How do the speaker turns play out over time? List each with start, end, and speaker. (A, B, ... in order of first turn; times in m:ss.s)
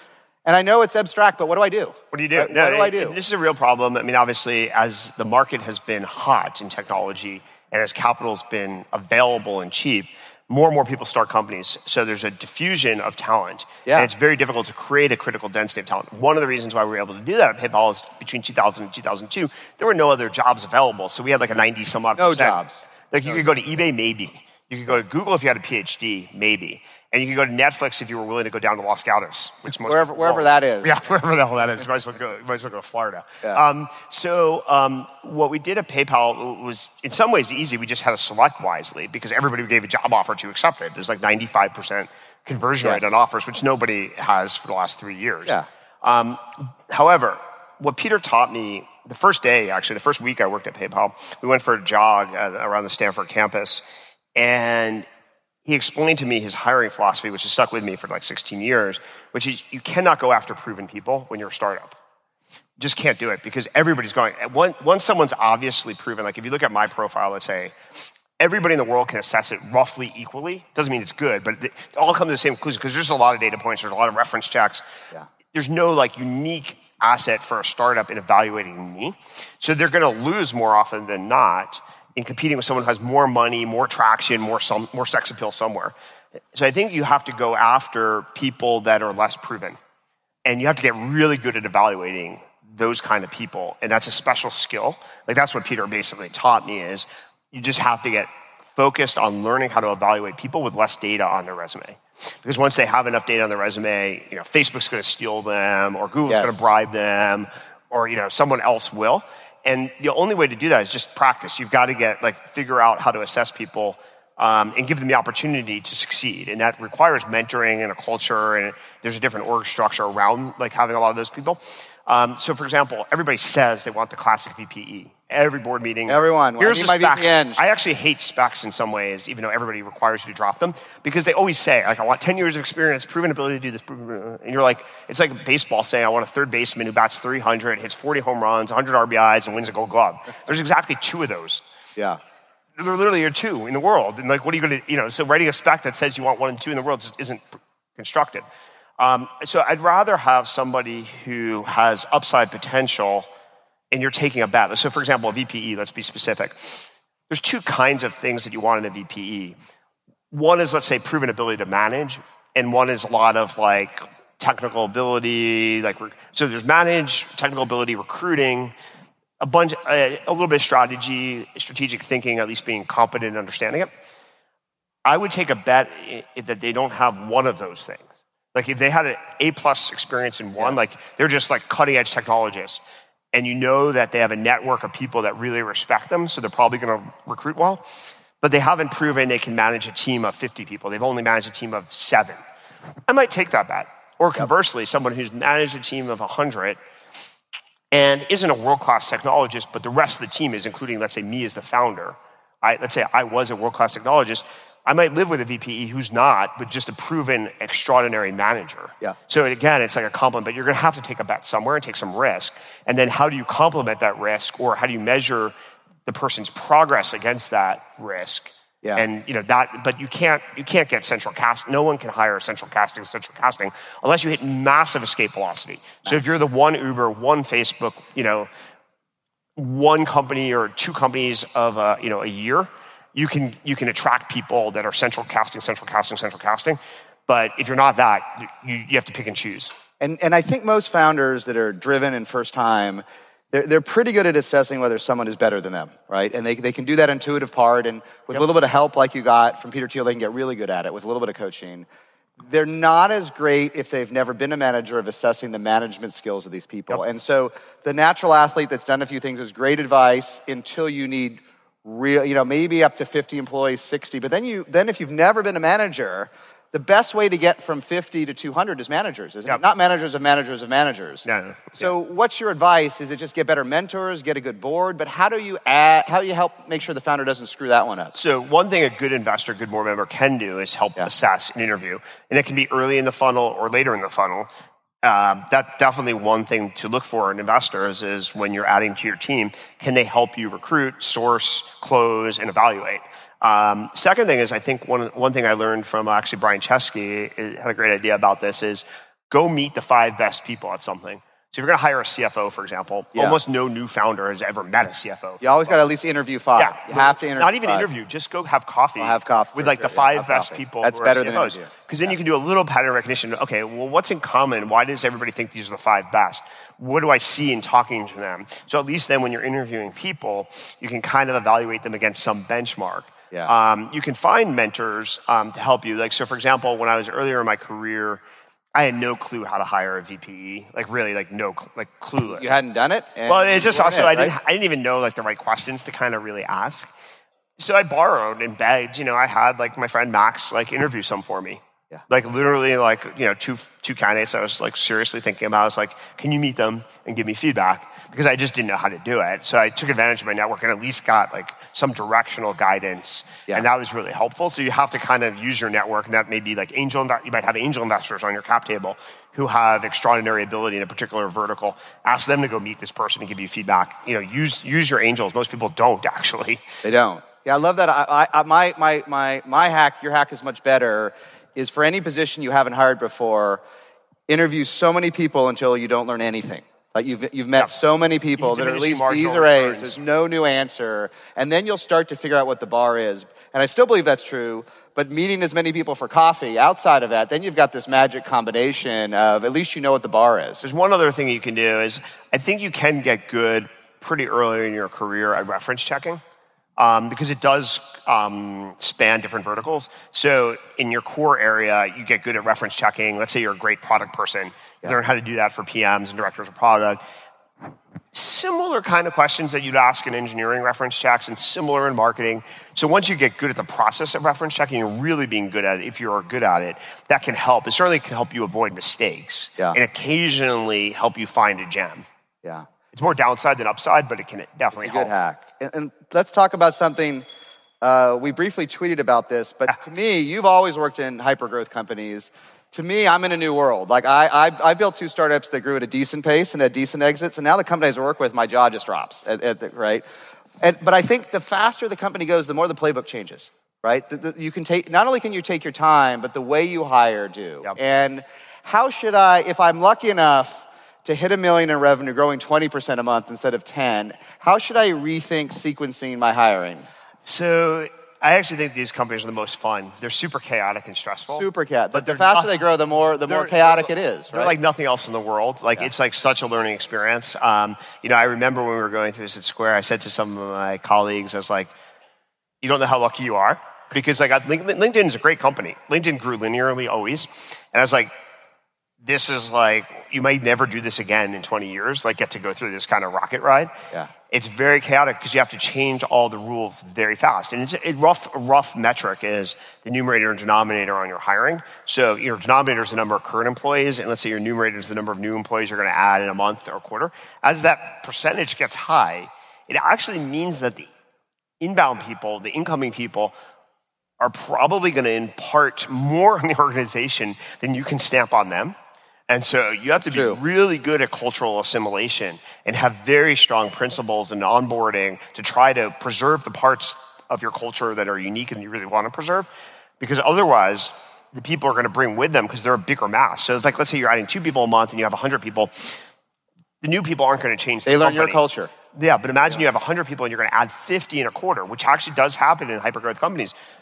0:00.4-0:03.2 A
0:02.1-0:53.8 B
0:22.2-0:22.8 A
0:29.8-0:30.9 A
0:42.8-0:43.1 A
0:54.3-0:55.0 B
0:55.6-1:01.9 B
1:02.8-1:07.7 B
1:08.4-1:14.8 B
1:15.5-1:25.9 B
1:26.5-1:29.8 B
1:30.4-2:21.6 B
1:46.3-1:46.6 A
2:06.1-2:07.6 A
2:22.8-2:27.4 B
2:28.0-2:28.4 B
2:29.0-2:33.3 B
2:33.9-2:39.5 B
2:40.3-2:48.7 B
2:49.4-2:53.9 B
2:55.0-3:02.8 B
3:03.3-3:07.8 B
3:08.4-3:12.4 B
3:13.1-3:16.8 B
3:17.9-3:35.5 B
3:36.0-3:48.5 B
3:49.6-3:59.7 B
4:00.0-4:11.8 A
4:12.4-4:38.1 A
4:31.2-4:31.9 B
4:38.1-4:44.5 B
4:45.0-5:05.8 B
5:03.1-5:03.4 A
5:05.4-5:07.9 A
5:06.6-5:28.2 B
5:09.0-5:11.7 A
5:28.7-5:32.6 B
5:32.2-5:34.3 A
5:33.3-5:36.9 B
5:37.6-6:06.6 B
6:06.8-6:13.6 A
6:14.3-6:30.6 A
6:18.4-6:20.0 B
6:30.6-6:36.2 B
6:36.8-6:47.0 B
6:48.1-7:02.0 B
7:02.9-7:05.1 B
7:04.8-7:07.2 A
7:07.8-7:20.0 A
7:20.6-7:36.9 A
7:37.2-7:42.5 B
7:41.3-7:44.5 A
7:43.3-7:51.7 B
7:52.6-7:58.1 B
7:59.0-8:03.7 B
8:04.3-8:20.9 B
8:21.6-8:23.3 B
8:24.2-8:28.7 B
8:29.3-8:39.5 B
8:30.0-8:30.4 A
8:40.0-8:46.0 B
8:46.8-8:48.4 B
8:47.8-8:48.7 A
8:48.9-8:53.5 B